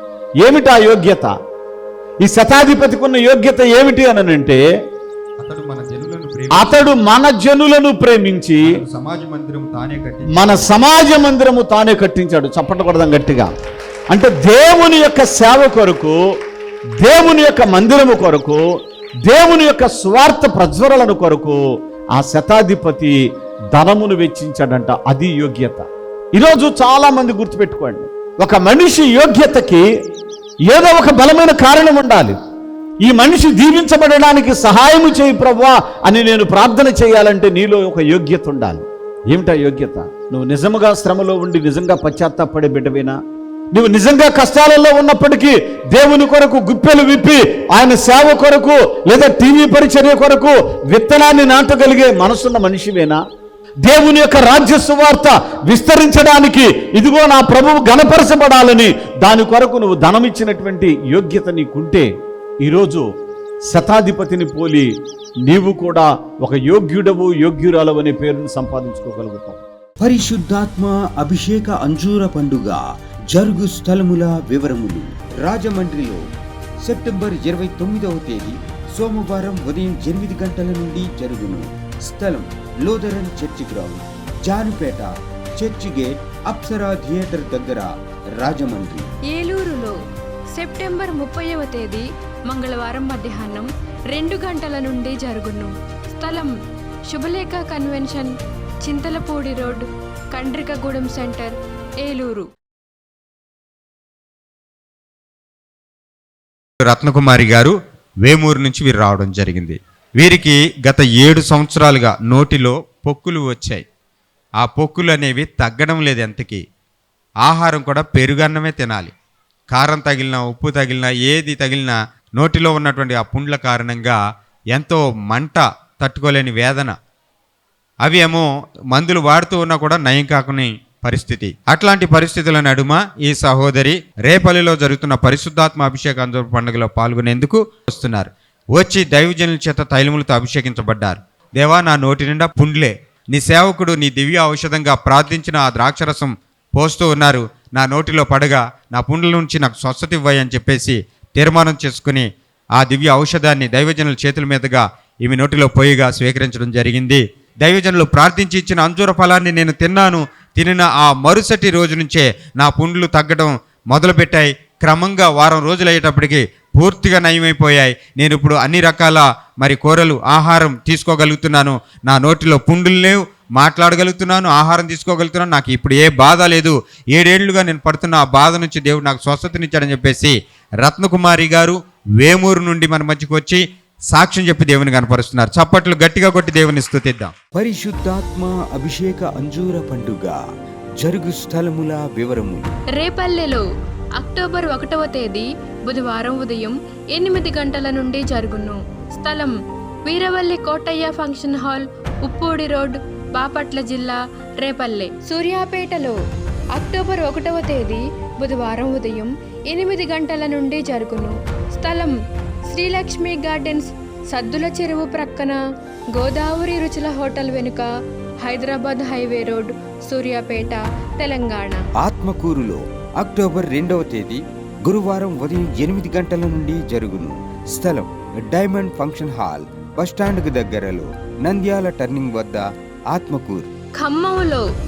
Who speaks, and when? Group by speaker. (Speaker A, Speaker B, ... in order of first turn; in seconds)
Speaker A: 0.4-1.3, 2.2-4.6, 6.5-8.7, 10.3-13.5, 14.1-16.2, 17.0-18.6, 19.2-21.6, 22.1-23.1, 23.7-29.8, 30.7-32.4, 33.0-43.2, 43.7-53.2, 53.8-62.1, 62.6-63.0, 63.7-64.9, 65.5-69.6
Speaker B: 5.4-7.0, 8.7-10.7, 106.8-113.8, 114.6-116.6, 117.4-119.1, 119.7-124.2, 124.7-126.9, 128.0-187.3
Speaker C: 70.0-76.2, 76.8-87.9, 88.4-89.1, 187.5-190.4, 191.0-192.7, 222.0-233.7
Speaker D: 89.3-90.0, 90.5-96.5, 97.1-102.5, 193.0-193.6, 194.2-199.5, 200.1-206.2, 206.8-212.1, 212.7-215.6, 216.1-217.9, 218.4-221.8, 234.0-234.6